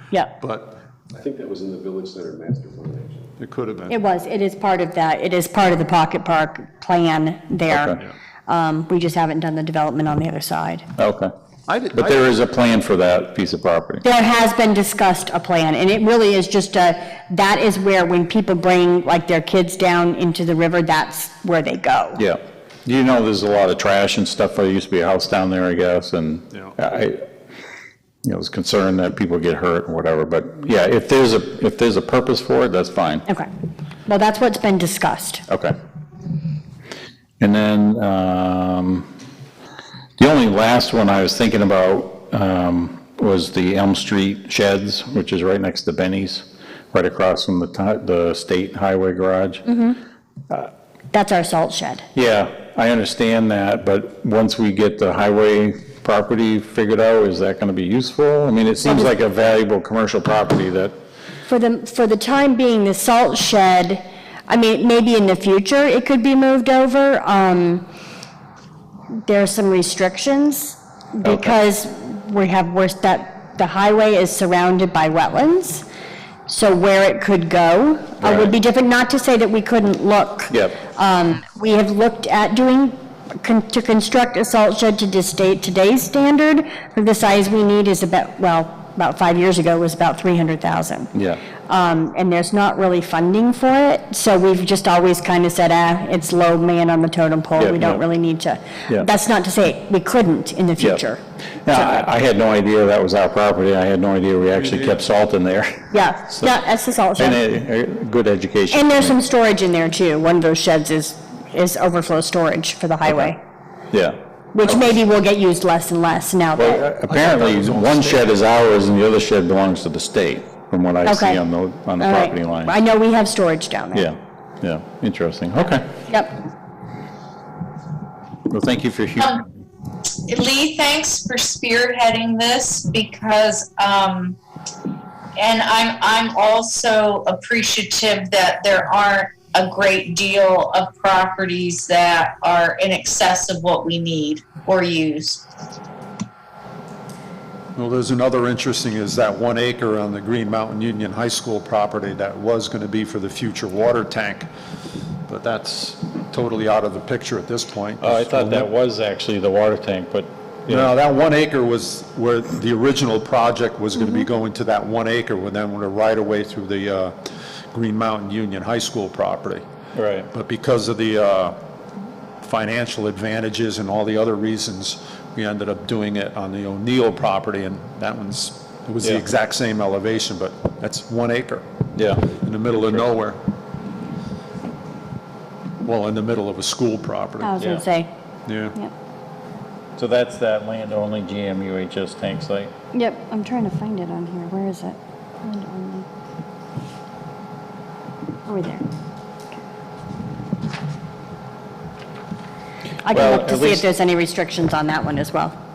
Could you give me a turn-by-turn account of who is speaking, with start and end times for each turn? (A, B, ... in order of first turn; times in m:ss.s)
0:00.4-0:00.8 A
0:01.1-0:03.3 B
0:03.4-0:04.0 A
0:03.9-0:10.8 C
0:07.7-0:08.0 D
0:11.0-0:11.3 D
0:11.7-0:12.4 A
0:11.9-0:14.0 D
0:14.0-0:22.2 C
0:22.2-0:27.2 D
0:28.2-0:33.2 D
0:34.1-0:35.4 C
0:35.5-0:35.7 D
0:37.4-0:39.1 D
0:40.2-0:49.6 D
0:49.6-0:50.0 C
0:51.1-0:52.0 C
0:52.1-1:00.9 D
1:01.5-1:07.8 C
1:09.2-1:15.8 C
1:11.2-1:11.6 D
1:16.5-1:31.1 C
1:18.2-1:18.5 D
1:20.5-1:20.8 D
1:31.1-1:31.4 D
1:31.7-1:42.0 C
1:37.6-1:38.0 D
1:40.8-1:41.0 D
1:41.6-1:46.6 D
1:44.5-1:45.0 A
1:45.9-1:47.4 C
1:47.2-1:49.2 D
1:48.7-1:53.4 C
1:53.0-1:53.3 D
1:53.9-1:54.9 D
1:54.5-1:56.8 C
1:56.6-2:02.8 D
1:57.0-1:58.5 A
2:01.0-2:01.4 C
2:02.0-2:04.1 C
2:03.9-2:06.0 D
2:06.1-2:06.4 C
2:08.5-2:09.3 D
2:10.2-2:14.4 E
2:15.4-2:25.4 E
2:27.8-2:34.5 A
2:35.3-2:38.7 A
2:38.0-2:40.9 D
2:40.7-2:49.6 A
2:50.0-2:50.3 D
2:50.3-2:51.6 A
2:52.4-3:01.6 A
3:01.9-3:03.0 D
3:02.4-3:03.4 A
3:05.8-3:07.6 A
3:07.4-3:08.1 C
3:07.6-3:07.8 D
3:08.4-3:08.8 A
3:10.0-3:12.7 D
3:12.9-3:16.0 C
3:18.4-3:18.8 C
3:23.0-3:25.6 C
3:23.1-3:23.8 D